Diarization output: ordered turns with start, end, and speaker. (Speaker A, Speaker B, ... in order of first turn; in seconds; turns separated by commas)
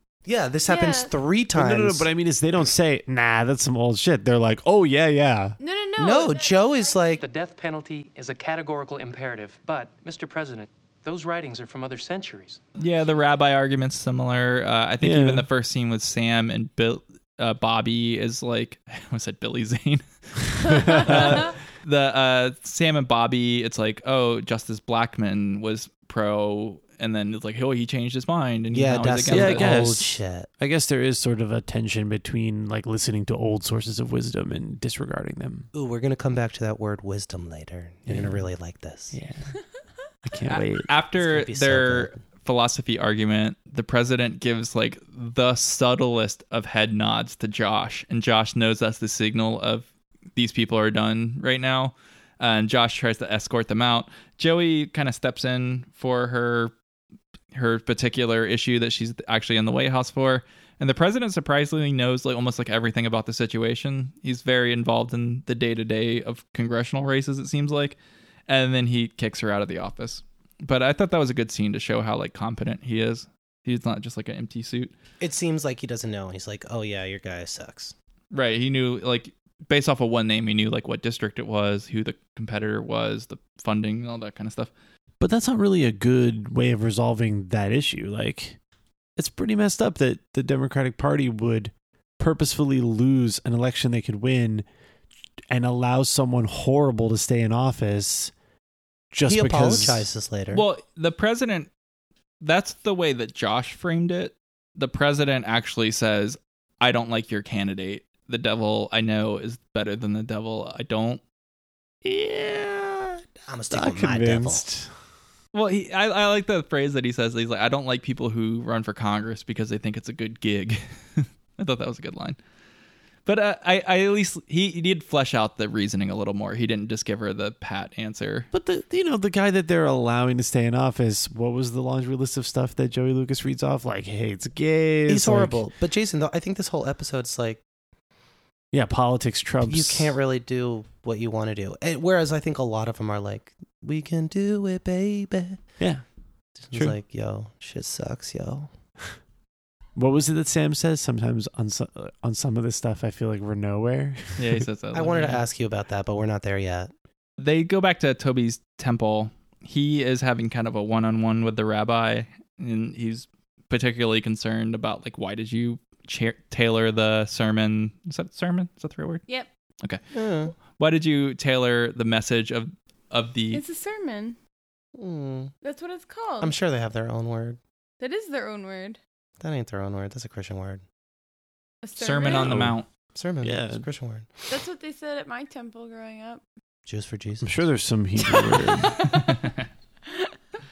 Speaker A: 0.2-2.1, Speaker B: 0.7-1.1, Speaker C: 1.5-5.5, Speaker B: 5.6-7.0, Speaker A: 6.0-7.2, Speaker D: 7.2-12.6, Speaker E: 12.8-29.8, Speaker C: 15.0-15.4, Speaker C: 20.6-21.2, Speaker A: 28.7-30.5, Speaker C: 29.3-35.7, Speaker A: 35.7-39.2, Speaker C: 38.0-38.4, Speaker C: 39.1-39.5, Speaker C: 40.2-40.9, Speaker E: 40.5-56.7, Speaker A: 41.1-42.2, Speaker E: 57.5-68.0, Speaker E: 68.5-74.9, Speaker A: 75.2-77.9, Speaker E: 78.3-84.7, Speaker C: 85.2-88.6, Speaker C: 89.2-94.7, Speaker C: 95.5-98.3, Speaker C: 99.1-100.1, Speaker A: 99.3-100.6, Speaker E: 100.5-101.7, Speaker E: 102.4-111.2, Speaker C: 112.0-114.9, Speaker A: 113.5-114.6, Speaker E: 115.5-122.4, Speaker E: 123.2-128.5, Speaker C: 128.5-135.7, Speaker A: 135.1-137.6, Speaker C: 138.7-140.2, Speaker A: 139.6-145.6, Speaker A: 146.6-148.7, Speaker C: 149.9-154.6, Speaker E: 154.3-155.4, Speaker A: 154.9-156.9, Speaker E: 157.4-169.2, Speaker A: 170.1-170.5, Speaker E: 170.7-173.6, Speaker B: 173.5-174.4, Speaker A: 174.9-175.5, Speaker B: 175.6-176.5, Speaker A: 176.4-177.6, Speaker B: 178.0-179.0, Speaker A: 179.4-180.8, Speaker B: 181.8-182.5, Speaker E: 182.0-182.8, Speaker C: 182.3-182.8, Speaker A: 183.1-184.3, Speaker C: 183.4-183.8, Speaker B: 184.5-186.4, Speaker A: 186.9-187.5, Speaker C: 187.4-188.9, Speaker B: 188.3-189.1, Speaker E: 189.0-189.5